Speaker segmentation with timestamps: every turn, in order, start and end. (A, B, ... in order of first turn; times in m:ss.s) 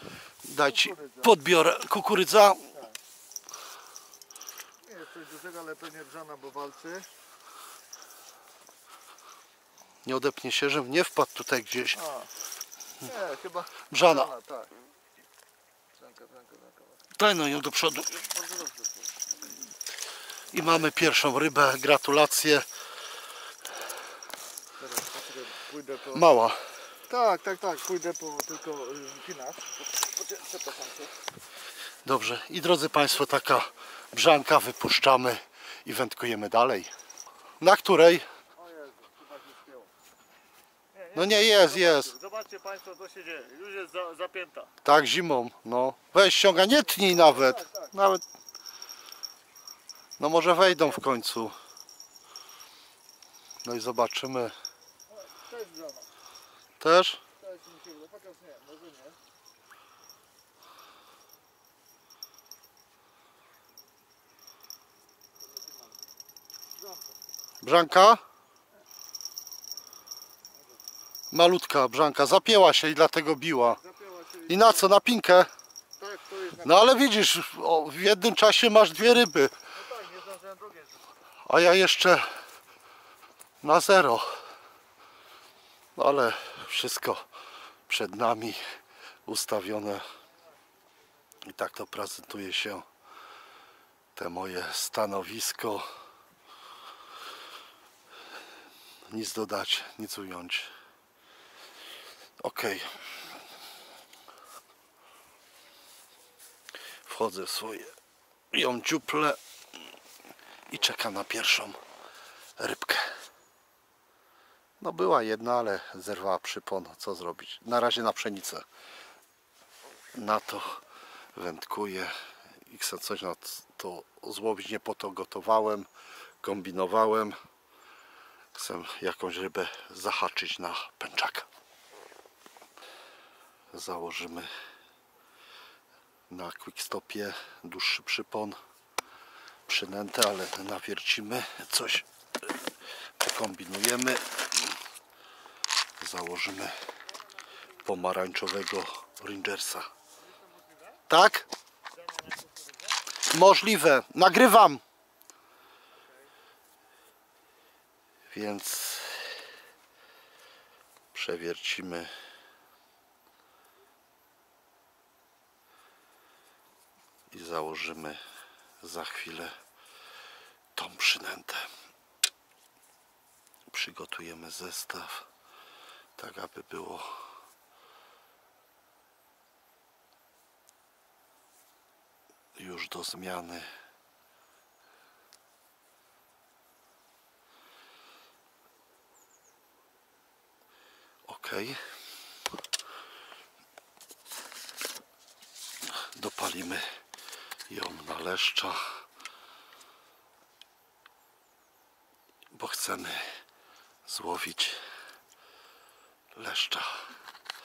0:00.4-0:02.7 A
0:00.7-0:01.4 B
0:02.7-0:03.0 B
0:04.8-0:07.1 B
0:10.0-0:12.0 A
0:12.0-0:12.3 B
0:13.0-0:14.7 B
0:13.9-0:14.3 A
0:16.0-0:17.0 B
0:17.2-0:18.2 A
0:18.3-0:19.1 B
0:20.5-0:22.7 A
0:24.8-0:26.3 B
0:26.1-0:26.6 A
0:27.1-0:31.1 B
0:32.0-0:36.9 A
0:37.6-0:38.3 A
0:38.6-0:39.9 B
0:40.9-0:44.7 B
0:41.2-0:42.1 A
0:44.8-0:48.2 A
0:47.0-0:47.8 B
0:50.2-0:51.6 A
0:53.6-0:54.5 A
0:55.1-0:56.1 B
0:56.8-0:57.2 A
0:57.4-0:59.2 B
1:07.6-1:08.2 A
1:11.3-1:13.8 A
1:13.7-1:14.9 B
1:14.5-1:15.5 A
1:16.0-1:16.8 B
1:16.6-1:19.5 A
1:19.7-1:21.1 B
1:21.4-1:22.3 A
1:23.6-1:24.4 A
1:26.0-1:27.3 A
1:27.9-1:28.6 A
1:29.3-1:30.0 A
1:31.4-1:32.9 A
1:34.2-1:35.9 A
1:39.1-1:40.7 A
1:42.4-1:43.1 A
1:47.0-1:47.9 A
1:48.5-1:49.4 A
1:50.7-1:51.8 A
1:52.6-1:53.1 A
1:54.8-1:58.7 A
2:00.1-2:00.8 A
2:01.3-2:05.9 A
2:06.4-2:07.4 A
2:08.5-2:11.5 A
2:13.7-2:14.5 A
2:16.3-2:18.6 A
2:19.7-2:22.1 A
2:23.2-2:24.6 A
2:26.0-2:26.8 A
2:27.8-2:29.9 A
2:30.3-2:31.0 B
2:31.1-2:31.5 A
2:32.0-2:33.0 B
2:33.3-2:34.8 A
2:38.3-2:39.4 A
2:41.1-2:42.1 A
2:47.3-2:48.2 A
2:48.8-2:49.6 A
2:50.8-2:51.7 A
2:53.7-2:55.3 A
2:56.2-2:57.2 A
3:02.6-3:03.7 A
3:11.3-3:11.8 A
3:15.9-3:16.9 A
3:17.7-3:18.9 A
3:22.5-3:23.3 A
3:24.1-3:24.8 A
3:26.4-3:27.1 A